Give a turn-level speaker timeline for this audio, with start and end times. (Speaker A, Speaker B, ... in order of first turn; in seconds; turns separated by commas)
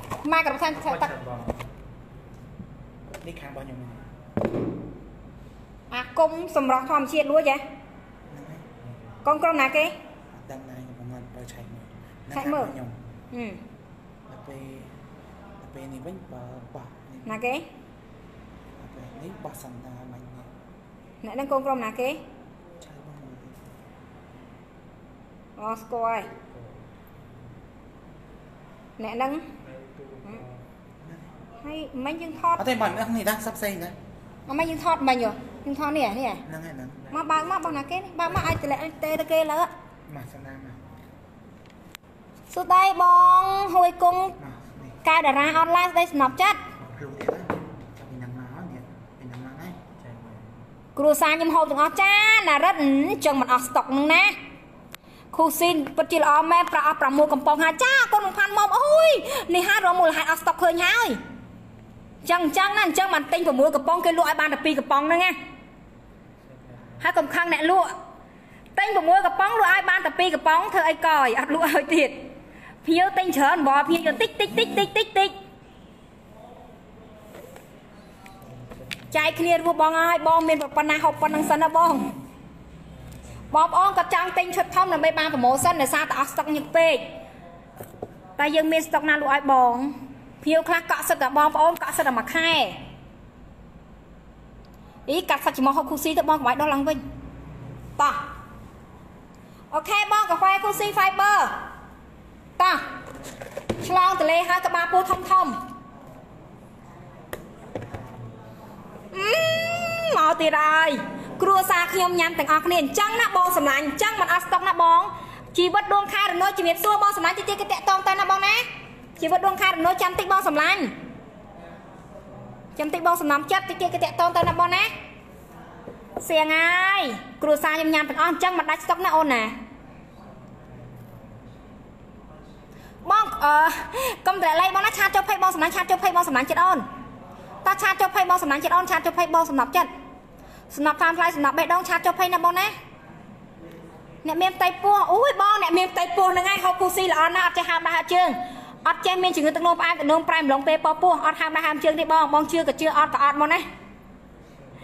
Speaker A: 0.2-1.1, Speaker B: 0.8-1.7, Speaker C: 3.2-4.1, Speaker A: 5.9-7.6, Speaker C: 8.3-8.7, Speaker A: 9.2-9.9, Speaker C: 10.3-13.0, Speaker A: 12.3-12.7, Speaker A: 13.3-13.6, Speaker C: 14.3-14.9, Speaker C: 15.6-17.4, Speaker A: 17.3-17.7, Speaker C: 18.8-20.5, Speaker A: 21.2-22.2, Speaker C: 22.8-23.6, Speaker A: 25.6-26.3, Speaker B: 26.5-26.9, Speaker A: 29.0-29.5, Speaker B: 29.6-30.6, Speaker C: 31.0-31.3, Speaker A: 31.6-32.7, Speaker C: 32.6-34.0, Speaker A: 34.5-36.4, Speaker C: 36.5-37.3, Speaker A: 37.1-39.7, Speaker C: 40.1-40.8, Speaker A: 42.5-44.4, Speaker C: 44.4-45.0, Speaker A: 45.0-46.6, Speaker C: 46.8-49.8, Speaker B: 50.0-50.6, Speaker A: 51.0-54.4, Speaker A: 55.3-61.2, Speaker A: 62.2-65.4, Speaker B: 66.5-67.0, Speaker A: 67.0-67.9, Speaker A: 68.8-72.3, Speaker A: 72.8-75.4, Speaker B: 78.4-79.1, Speaker A: 79.1-82.1, Speaker A: 83.5-87.1, Speaker A: 88.4-92.8, Speaker A: 95.1-97.0, Speaker A: 98.0-98.2, Speaker A: 99.7-101.6, Speaker A: 103.8-105.6, Speaker A: 109.1-118.7, Speaker A: 119.2-120.9, Speaker A: 122.8-124.9, Speaker A: 126.2-129.6, Speaker A: 133.0-136.9, Speaker A: 137.6-139.9, Speaker A: 140.7-142.8, Speaker A: 144.2-153.7